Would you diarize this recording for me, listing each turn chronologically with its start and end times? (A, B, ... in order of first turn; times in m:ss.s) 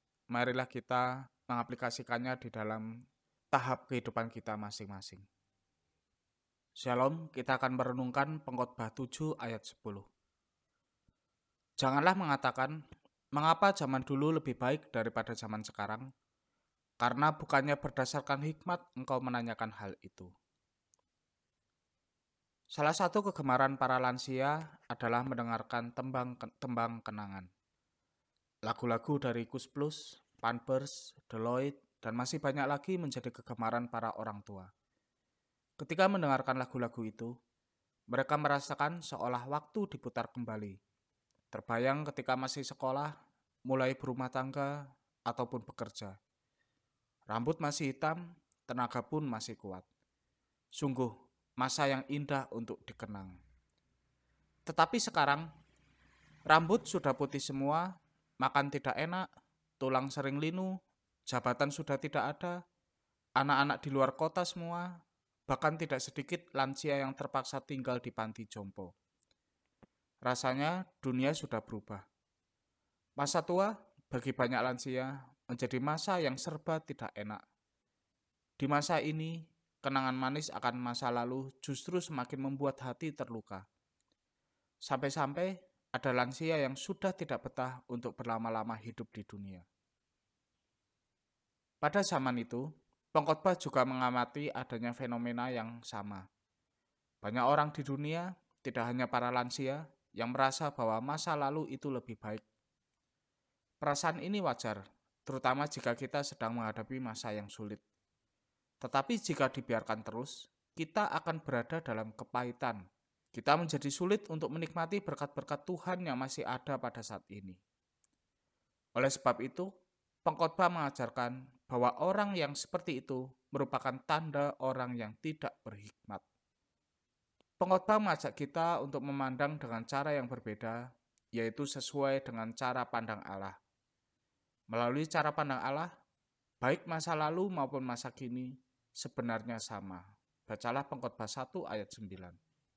0:00.3-0:02.9 A
0:03.5-0:05.2 A
0:06.8-0:10.0 A
0:11.8-0:12.8 A
0:13.4-0:16.0 A
0:17.0-0:20.3 A
0:22.7-0:27.5 A
0:28.7-0:34.7 A
0:35.8-0:37.3 A
0:38.1-0:40.8 A
0:41.5-0:43.1 A
0:43.7-0:44.7 A
0:45.3-0:46.2 A
0:47.3-0:49.8 A
0:50.8-0:53.3 A
0:54.7-0:55.4 A
0:56.5-0:57.8 A
0:58.4-0:59.2 A
0:59.8-1:00.7 A
1:01.3-1:02.6 A
1:03.4-1:04.9 A
1:05.5-1:08.9 A
1:10.3-1:12.0 A
1:13.2-1:17.4 A
1:18.6-1:23.6 A
1:24.9-1:29.6 A
1:31.8-1:32.6 A
1:33.1-1:36.2 A
1:37.2-1:42.4 A
1:43.8-1:47.8 A
1:48.8-1:52.8 A
1:53.3-1:57.6 A
1:59.0-1:59.7 A
2:00.2-2:06.2 A
2:07.6-2:10.8 A
2:11.4-2:13.6 A
2:14.7-2:15.9 A
2:16.6-2:18.5 A
2:19.0-2:22.4 A